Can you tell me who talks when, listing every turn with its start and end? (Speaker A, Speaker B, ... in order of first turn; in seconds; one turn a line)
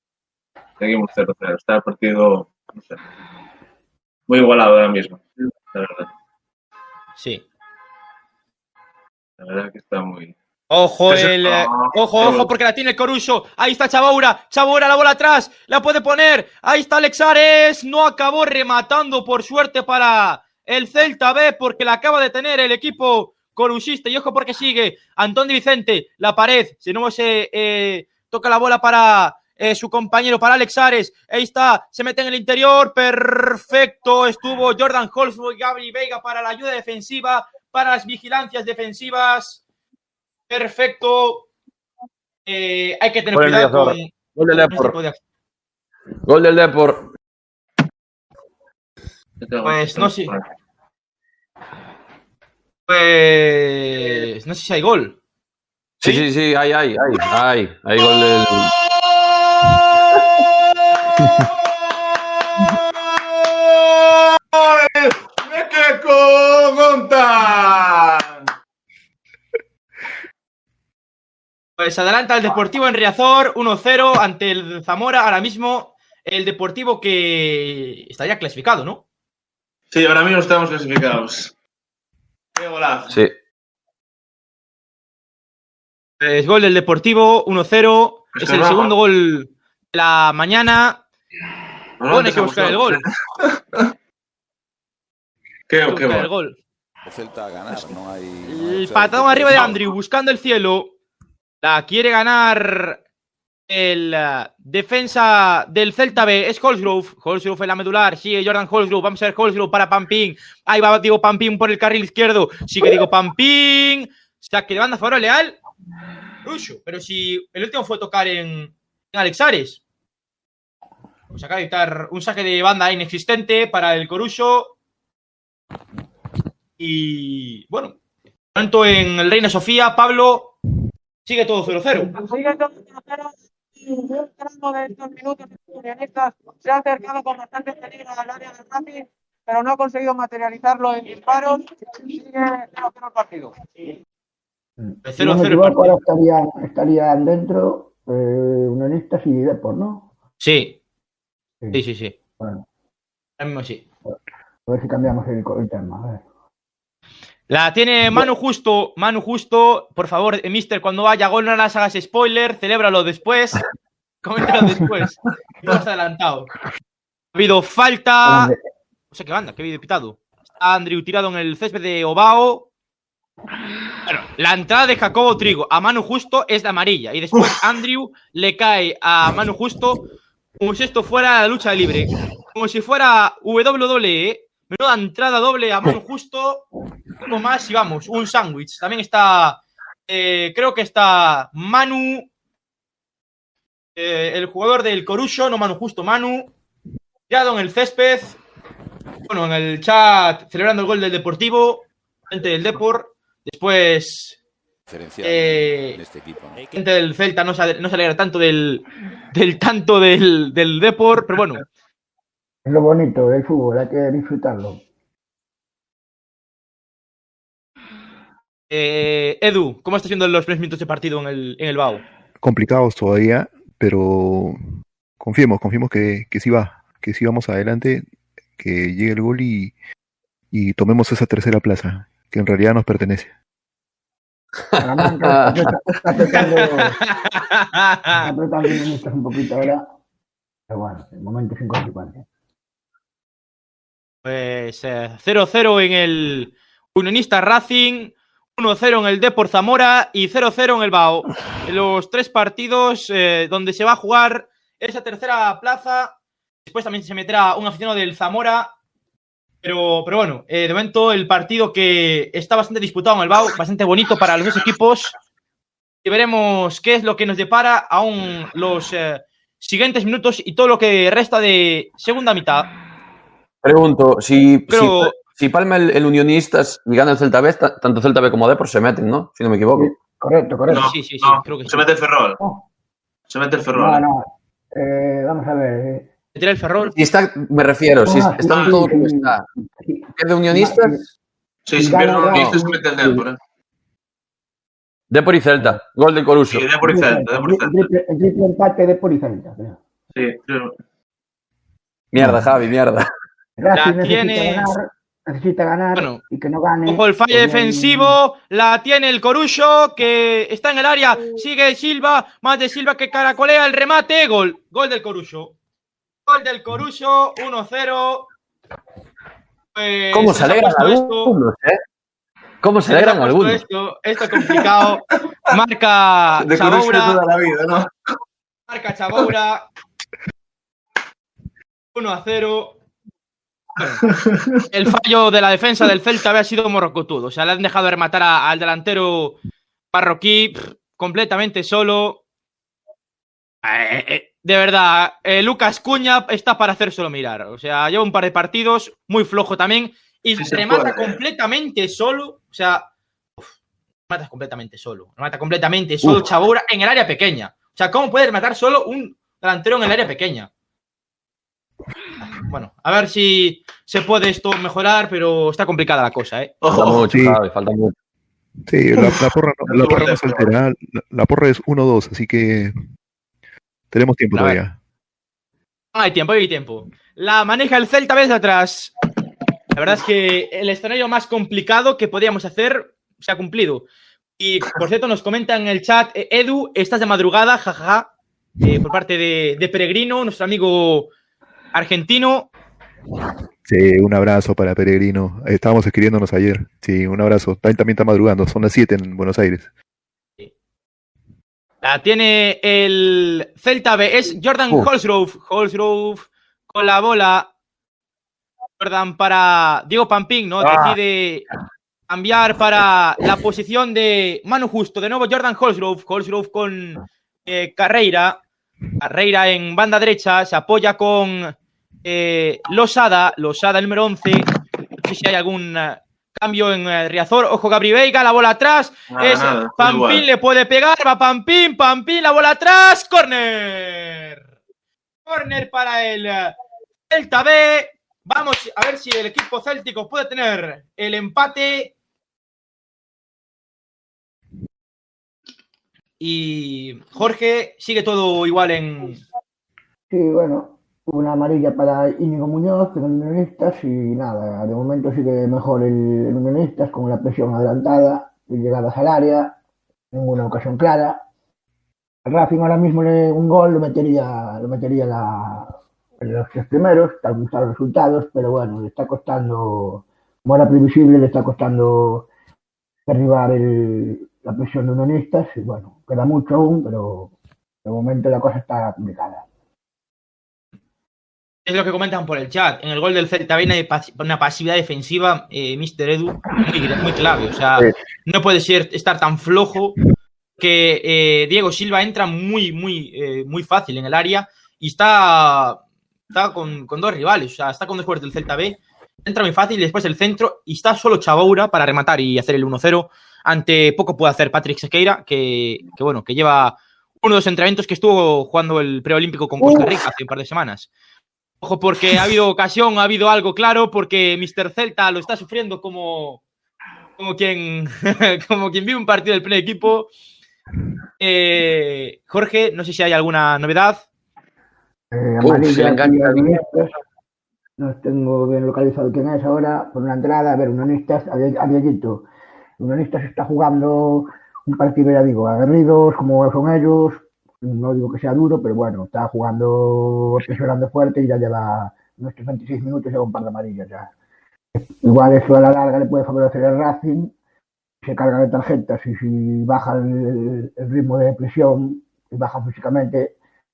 Speaker A: 0.8-3.0
Speaker A: 4.3-6.1
Speaker B: 7.2-7.4
Speaker A: 9.4-10.3
Speaker B: 10.7-39.6
Speaker A: 11.1-12.5
Speaker B: 40.5-41.5
Speaker B: 42.5-45.2
Speaker C: 43.3-45.0
Speaker C: 46.2-47.0
Speaker A: 49.4-50.4
Speaker B: 49.6-50.3
Speaker B: 52.9-55.2
Speaker C: 56.0-58.7
Speaker A: 58.0-68.5
Speaker B: 71.8-79.0
Speaker A: 79.9-81.5
Speaker A: 82.5-83.2
Speaker B: 86.2-91.0
Speaker A: 88.3-88.9
Speaker A: 92.0-93.9
Speaker B: 92.1-93.0
Speaker A: 95.7-96.3
Speaker B: 95.9-96.6
Speaker D: 97.0-99.7
Speaker B: 98.5-100.9
Speaker B: 101.6-103.0
Speaker B: 103.7-115.6
Speaker B: 116.4-119.8
Speaker B: 121.3-124.7
Speaker B: 126.8-128.0
Speaker B: 128.5-130.5
Speaker B: 131.2-132.1
Speaker E: 132.1-143.5
Speaker F: 144.8-150.1
Speaker B: 145.0-145.9
Speaker B: 150.4-150.8
Speaker B: 151.7-152.1
Speaker F: 152.4-152.6
Speaker B: 153.4-153.8
Speaker F: 154.7-156.2
Speaker B: 157.5-163.6
Speaker B: 164.2-166.5
Speaker B: 167.3-168.5
Speaker C: 168.2-168.5
Speaker B: 169.1-172.7
Speaker B: 174.1-180.0
Speaker B: 180.6-186.6
Speaker B: 187.2-192.3
Speaker B: 193.9-196.5
Speaker B: 197.3-198.4
Speaker B: 199.3-204.4
Speaker D: 204.9-206.8
Speaker B: 205.2-206.0
Speaker B: 206.7-211.6
Speaker F: 212.6-214.8
Speaker B: 218.7-222.0
Speaker G: 222.4-224.6
Speaker G: 225.2-228.0
Speaker G: 228.6-229.7
Speaker G: 230.5-233.3
Speaker C: 234.7-235.7
Speaker F: 234.8-237.0
Speaker B: 236.3-238.3
Speaker F: 238.1-239.9
Speaker F: 240.7-242.2
Speaker B: 244.2-258.7
Speaker B: 259.6-265.1
Speaker B: 266.0-272.7
Speaker C: 273.6-279.9
Speaker B: 274.7-275.1
Speaker F: 279.7-280.9
Speaker A: 280.7-282.4
Speaker B: 280.7-281.9
Speaker F: 282.4-282.6
Speaker A: 283.3-284.0
Speaker F: 283.7-286.1
Speaker B: 286.3-286.9
Speaker C: 286.8-289.4
Speaker F: 288.0-291.0
Speaker C: 290.2-291.0
Speaker A: 291.6-293.4
Speaker F: 291.8-293.2
Speaker C: 292.3-292.6
Speaker C: 295.1-296.6
Speaker A: 296.5-297.8
Speaker F: 296.8-299.8
Speaker A: 300.1-300.8
Speaker C: 302.1-303.1
Speaker F: 303.6-308.2
Speaker B: 303.7-304.7
Speaker B: 305.9-306.2
Speaker B: 306.9-315.5
Speaker B: 316.3-318.3
Speaker B: 319.7-321.3
Speaker C: 320.1-321.8
Speaker C: 322.6-323.6
Speaker B: 322.8-327.2
Speaker A: 324.4-324.9
Speaker A: 326.4-327.9
Speaker B: 328.7-329.7
Speaker B: 331.9-332.8
Speaker B: 333.8-334.0
Speaker A: 334.0-334.6
Speaker B: 334.7-339.4
Speaker B: 339.9-342.2
Speaker B: 343.6-352.9
Speaker A: 350.4-351.2
Speaker B: 354.1-360.5
Speaker B: 362.3-366.5
Speaker A: 366.6-367.1
Speaker C: 366.7-367.9
Speaker G: 367.1-367.4
Speaker G: 368.7-372.7
Speaker A: 369.0-370.5
Speaker G: 373.9-374.8
Speaker B: 374.3-374.6
Speaker B: 375.9-378.9
Speaker B: 379.7-383.8
Speaker B: 384.4-388.1
Speaker B: 388.6-391.1
Speaker B: 391.7-392.5
Speaker G: 393.6-399.7
Speaker B: 401.8-407.5
Speaker B: 408.8-411.4
Speaker C: 410.6-411.0
Speaker B: 412.1-418.4
Speaker B: 419.0-424.5
Speaker B: 425.0-434.4
Speaker A: 429.1-430.2
Speaker B: 435.2-436.5
Speaker B: 437.1-441.9
Speaker B: 446.2-449.2
Speaker F: 450.1-459.6
Speaker F: 460.1-461.2
Speaker F: 462.2-472.3
Speaker F: 473.1-477.3
Speaker F: 477.8-479.4
Speaker B: 481.6-490.0
Speaker B: 490.6-495.8
Speaker B: 496.3-510.9
Speaker C: 509.6-509.9
Speaker B: 511.6-516.4
Speaker B: 517.2-520.1
Speaker B: 521.2-524.0
Speaker F: 525.1-526.9
Speaker C: 525.4-526.6
Speaker F: 527.8-532.2
Speaker F: 532.8-544.1
Speaker F: 544.7-547.3
Speaker F: 548.0-553.3